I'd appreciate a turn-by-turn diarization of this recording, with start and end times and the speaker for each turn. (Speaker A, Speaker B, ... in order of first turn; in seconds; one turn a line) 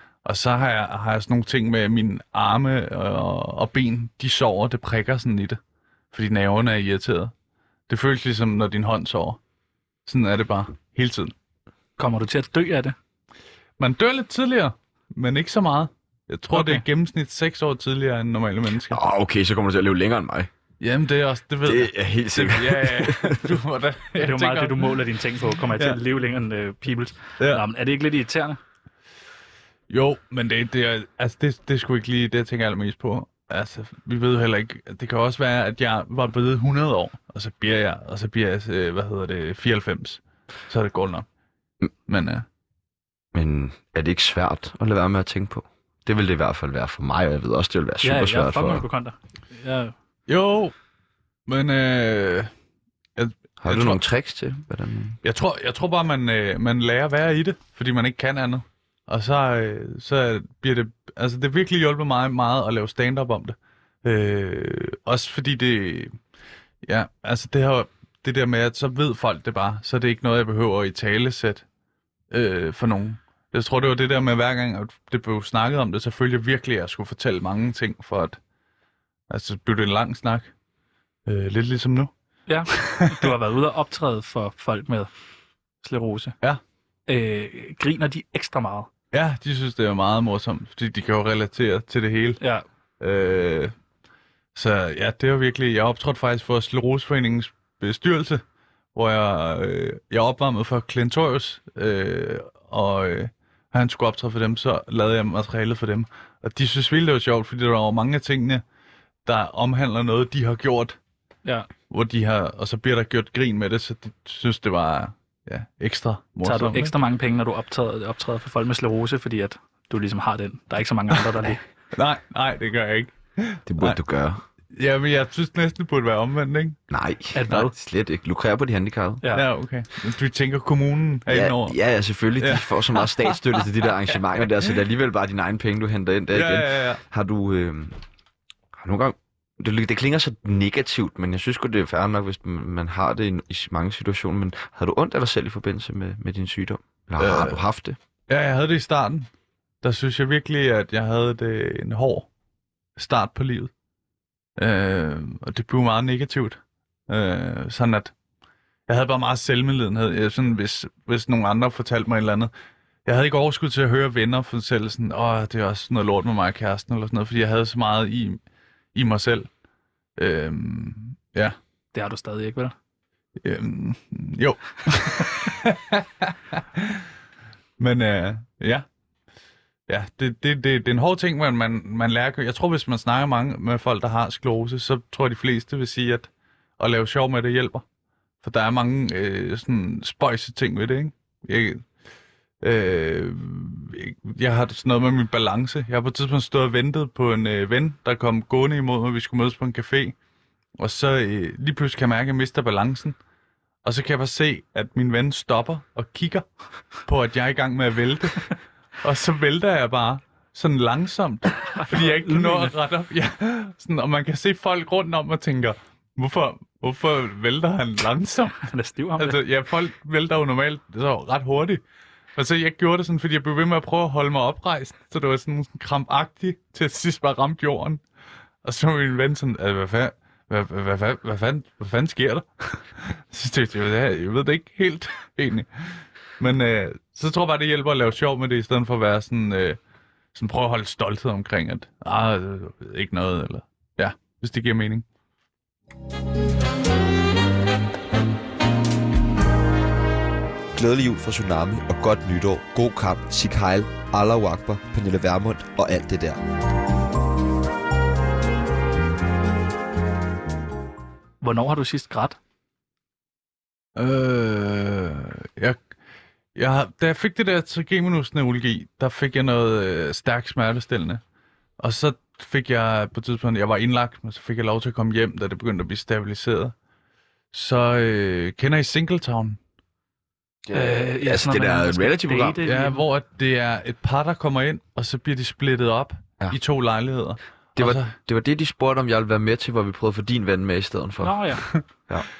Speaker A: 0.2-5.6
Speaker A: 6.1-7.3
Speaker A: 7.9-9.4
Speaker A: 10.1-11.3
Speaker B: 12.0-12.9
Speaker A: 13.8-19.0
Speaker B: 16.5-16.8
Speaker C: 18.9-20.5
Speaker A: 20.8-25.0
Speaker C: 21.6-23.6
Speaker B: 24.2-28.6
Speaker A: 27.4-27.6
Speaker A: 29.9-41.2
Speaker A: 42.1-42.5
Speaker C: 43.3-48.8
Speaker B: 48.0-49.9
Speaker A: 50.3-50.7
Speaker A: 51.5-52.5
Speaker A: 53.1-54.0
Speaker C: 53.6-55.2
Speaker A: 55.2-66.2
Speaker A: 66.8-71.6
Speaker A: 72.3-78.4
Speaker A: 79.3-80.5
Speaker A: 81.2-82.1
Speaker B: 82.5-85.1
Speaker A: 82.7-83.3
Speaker B: 85.8-86.3
Speaker B: 87.1-88.9
Speaker A: 89.1-92.4
Speaker B: 92.4-92.6
Speaker A: 93.0-93.7
Speaker A: 94.5-98.4
Speaker A: 98.9-108.6
Speaker A: 109.2-111.0
Speaker A: 111.9-116.9
Speaker B: 116.4-121.6
Speaker A: 121.9-124.0
Speaker C: 123.7-124.4
Speaker A: 124.7-126.8
Speaker C: 126.9-129.2
Speaker B: 127.3-127.7
Speaker A: 129.3-131.8
Speaker C: 131.3-138.0
Speaker A: 132.4-133.4
Speaker A: 136.3-137.0
Speaker C: 138.7-148.0
Speaker A: 147.2-147.6
Speaker A: 148.3-149.3
Speaker A: 149.8-152.3
Speaker A: 152.9-153.7
Speaker A: 154.6-158.1
Speaker A: 158.9-162.5
Speaker A: 163.1-168.4
Speaker A: 168.9-169.5
Speaker A: 170.2-171.6
Speaker B: 171.9-172.7
Speaker A: 173.4-177.0
Speaker A: 177.8-178.8
Speaker A: 179.9-187.8
Speaker A: 188.4-191.8
Speaker A: 192.6-200.2
Speaker A: 200.8-203.2
Speaker A: 203.8-206.4
Speaker A: 207.1-208.4
Speaker A: 209.0-221.8
Speaker B: 211.7-212.7
Speaker B: 218.6-219.4
Speaker A: 222.3-228.0
Speaker A: 228.6-239.8
Speaker A: 240.3-245.0
Speaker D: 250.7-256.4
Speaker B: 261.4-262.4
Speaker A: 263.9-265.8
Speaker A: 266.5-271.2
Speaker A: 271.8-276.7
Speaker A: 277.5-279.6
Speaker C: 280.6-282.6
Speaker B: 280.7-283.0
Speaker A: 282.6-288.1
Speaker C: 287.8-291.4
Speaker B: 291.2-291.6